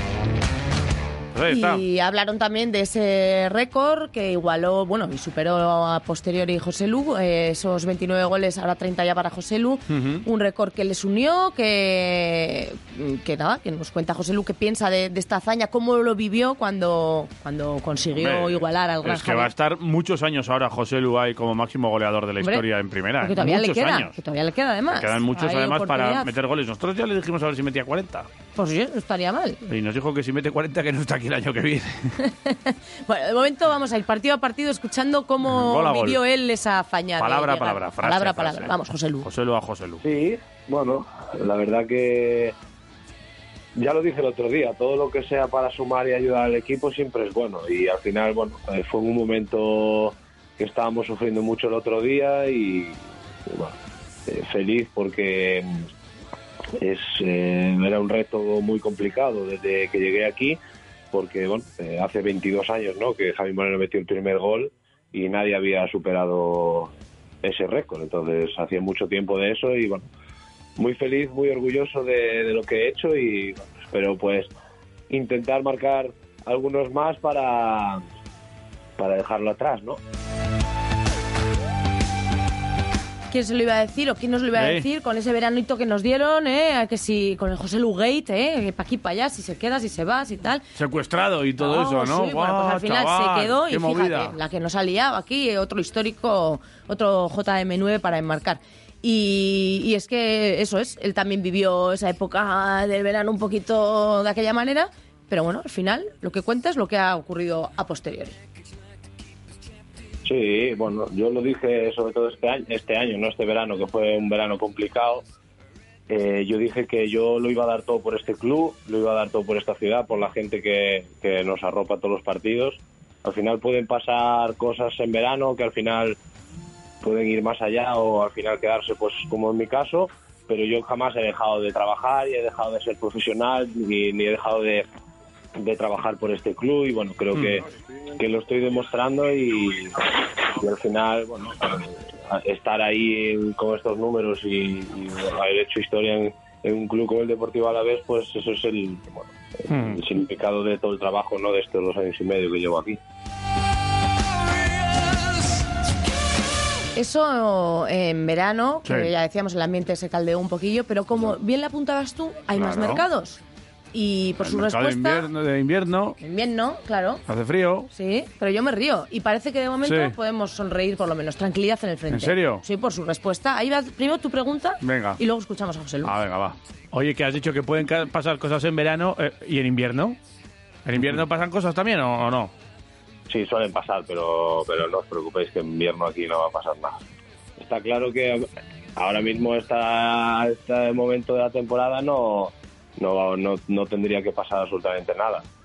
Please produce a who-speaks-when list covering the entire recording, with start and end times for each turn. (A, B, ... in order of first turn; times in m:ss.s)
0:01.3-0:01.8 A
0:01.5-0:19.5 B
0:09.9-0:10.2 A
0:18.2-0:24.1 A
0:23.2-0:26.3 B
0:24.9-0:28.3 A
0:28.6-0:29.6 B
0:29.7-0:32.2 A
0:32.2-0:39.3 B
0:35.4-0:36.2 A
0:37.2-0:40.0 A
0:40.0-0:42.6 C
0:43.8-0:53.8 C
0:54.3-0:55.8 C
0:56.8-1:00.6 C
1:01.1-1:06.9 C
1:07.4-1:10.1 C
1:10.8-1:14.5 C
1:15.1-1:18.0 C
1:19.0-1:20.0 C
1:23.3-1:30.6 B
1:24.6-1:24.8 A
1:30.8-1:34.4 A
1:31.6-1:48.4 B
1:50.2-1:55.2 C
1:56.1-2:06.2 C
2:07.0-2:14.9 C
2:15.6-2:17.6 C
2:18.2-2:33.0 C
2:29.7-2:30.0 A
2:37.0-2:43.4 B
2:38.8-2:39.1 A
2:42.6-2:43.0 A
2:43.9-2:45.3 B
2:44.4-2:46.2 A
2:46.2-2:47.2 B
2:47.3-2:47.9 A
2:47.9-2:56.1 B
2:49.8-2:50.2 A
2:52.1-2:52.6 A
2:54.8-2:55.2 A
2:56.0-3:00.2 A
3:00.9-3:02.5 A
3:03.3-3:07.0 C
3:07.6-3:08.4 C
3:09.0-3:15.4 C